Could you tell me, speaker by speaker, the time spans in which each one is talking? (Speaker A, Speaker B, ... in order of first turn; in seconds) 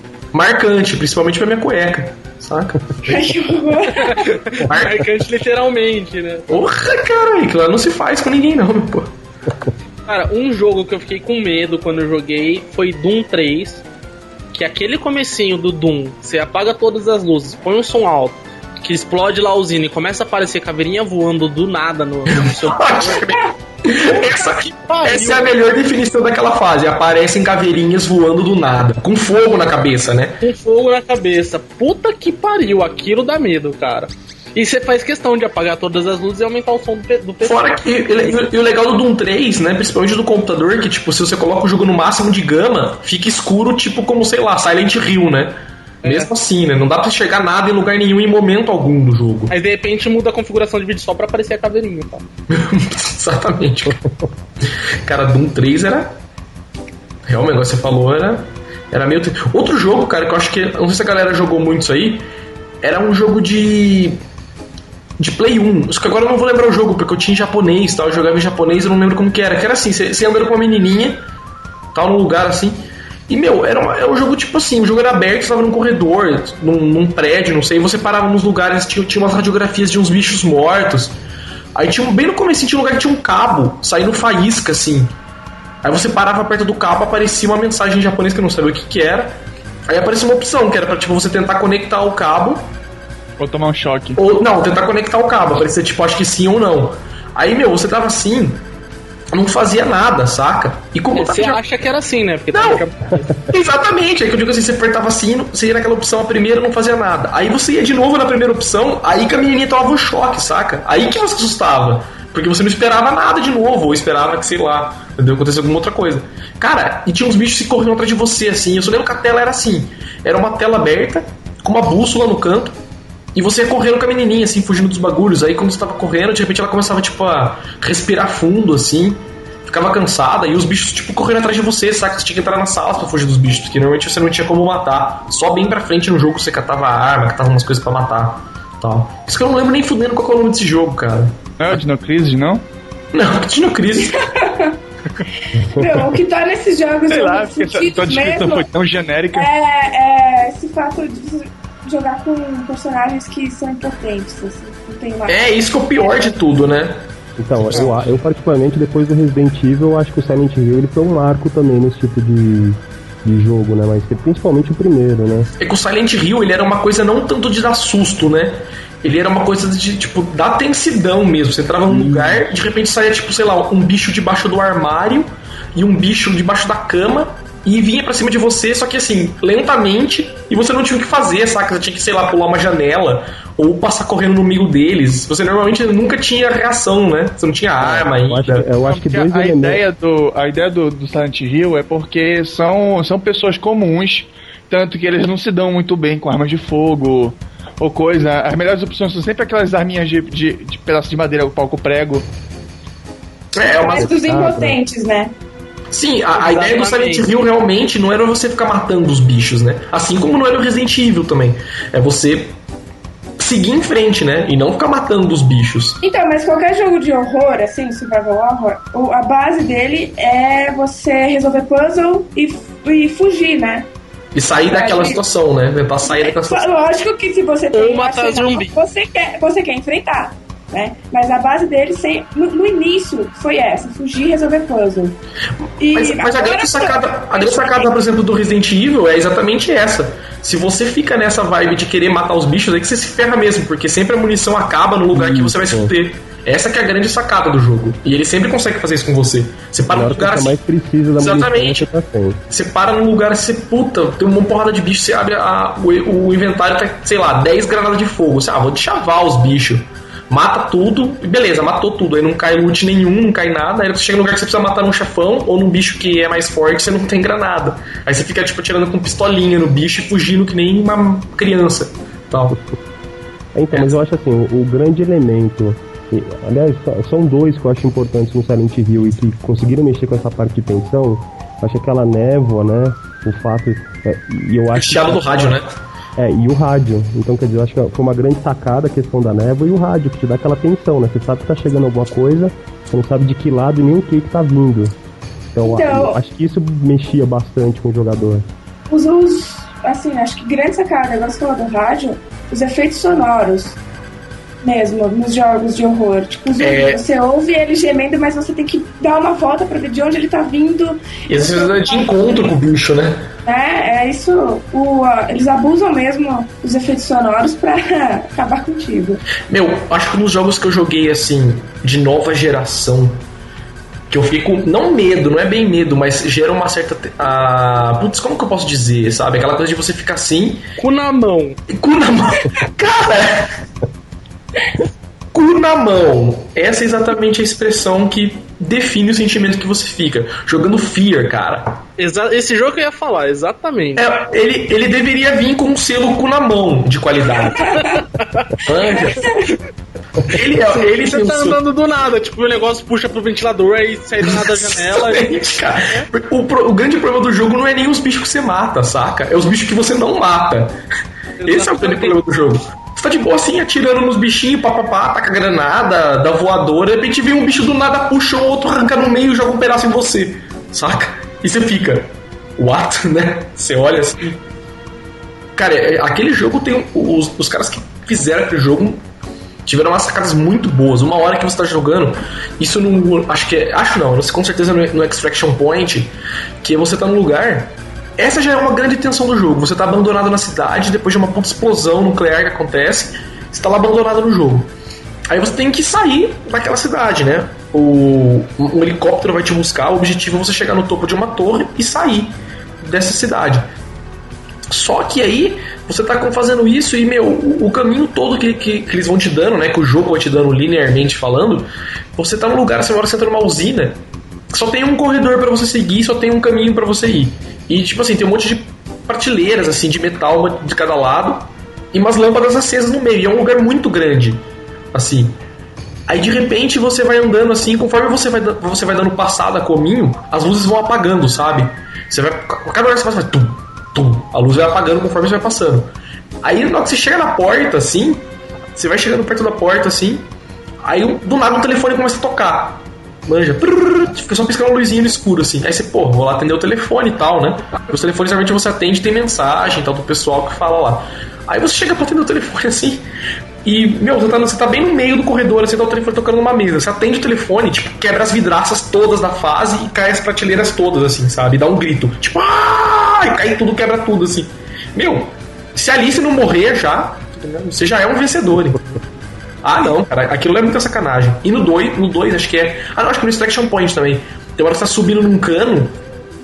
Speaker A: 0.3-3.3, 4.6-5.1, 6.5-9.1, 22.3-30.4, 37.4-49.5, 52.5-54.0, 55.0-56.2, 57.3-62.2, 62.8-64.2, 65.2-71.2, 71.9-81.1, 81.8-85.1, 85.8-92.7, 94.2-98.6, 99.3-101.6, 102.5-102.8, 103.5-122.8, 123.3-141.4, 143.1-144.2, 155.3-157.1, 157.6-158.1, 165.6-188.7, 203.6-204.1, 205.9-212.6, 213.4-216.0, 224.3-226.7, 235.9-250.6, 251.2-251.9, 252.5-272.6, 284.8-285.8, 306.6-307.0, 311.3-313.2, 319.5-323.2, 324.1-330.6, 331.7-333.6, 335.3-341.8, 344.0-348.0, 348.6-349.5, 350.2-351.6, 354.2-360.8, 361.4-374.4, 375.6-379.0, 379.6-386.1, 386.6-394.7, 395.3-403.7, 404.7-414.0, 414.5-425.4, 426.1-435.9, 436.4-438.2, 438.8-440.2, 440.8-453.0, 453.6-468.8, 469.6-475.9
Speaker B: 3.0-4.4, 144.0-144.8, 145.5-148.7, 149.3-156.2, 203.7-205.3, 216.0-223.9, 224.7-225.2, 226.0-235.2, 235.8-237.9, 295.6-296.2, 298.9-303.8, 304.6-312.2, 313.5-319.2
Speaker C: 4.0-6.5, 10.1-13.8, 14.5-23.4, 24.9-25.6, 30.4-37.7, 46.0-46.3, 49.5-52.2, 101.2-103.4, 206.3-207.3, 227.7-228.7, 330.8-331.6, 342.0-344.1, 347.7-348.6, 350.6-356.1, 361.4-362.2
Speaker D: 93.4-94.2, 141.6-142.7, 147.1-149.5, 188.8-202.2
Speaker E: 157.4-165.5, 171.9-172.5, 187.8-189.8, 203.9-204.8, 245.1-245.9, 249.9-252.4, 273.6-285.6, 286.2-294.9, 295.5-298.5